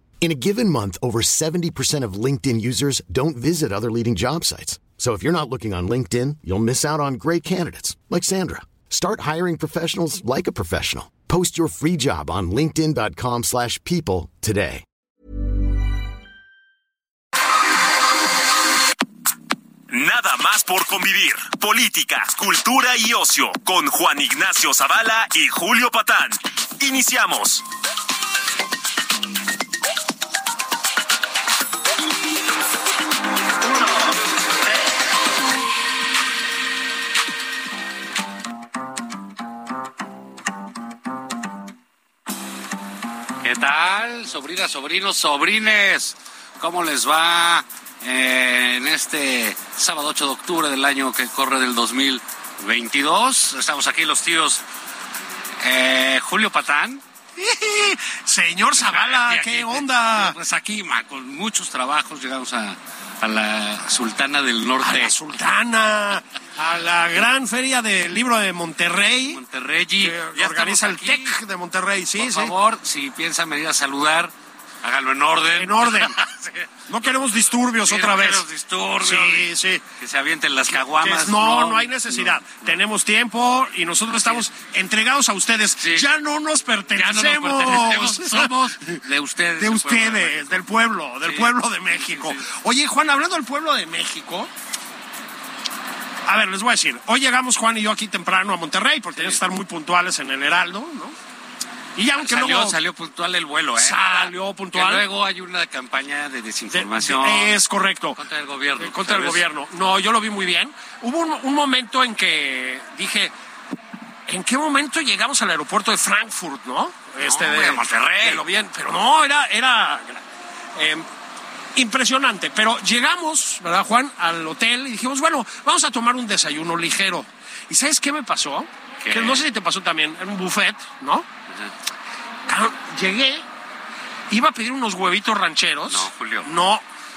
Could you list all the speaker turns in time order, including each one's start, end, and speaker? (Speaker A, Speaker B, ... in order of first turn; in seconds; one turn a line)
Speaker A: 0.2-14.8
Speaker B: 19.9-27.6
Speaker C: 43.4-54.6
Speaker C: 55.6-57.0
Speaker D: 57.4-60.3
Speaker C: 58.8-65.1
Speaker D: 64.8-69.4
Speaker C: 69.3-71.4
Speaker D: 70.0-72.5
Speaker C: 72.2-74.3
Speaker C: 74.8-76.7
Speaker D: 75.5-76.1
Speaker D: 76.9-78.4
Speaker C: 77.8-82.7
Speaker D: 79.0-79.8
Speaker D: 80.7-88.5
Speaker C: 84.1-84.4
Speaker C: 85.8-86.0
Speaker C: 87.0-90.6
Speaker D: 89.6-94.5
Speaker C: 91.2-92.5
Speaker D: 96.2-101.2
Speaker C: 99.1-99.4
Speaker D: 102.0-102.8
Speaker C: 102.1-107.5
Speaker D: 103.8-105.0
Speaker D: 106.7-108.2
Speaker C: 108.2-109.4
Speaker D: 108.8-113.3
Speaker D: 114.3-120.2
Speaker C: 117.2-118.4
Speaker D: 120.7-121.0
Speaker D: 121.7-131.3
Speaker C: 129.0-129.4
Speaker D: 132.5-133.4
Speaker D: 134.3-136.8
Speaker C: 135.9-136.5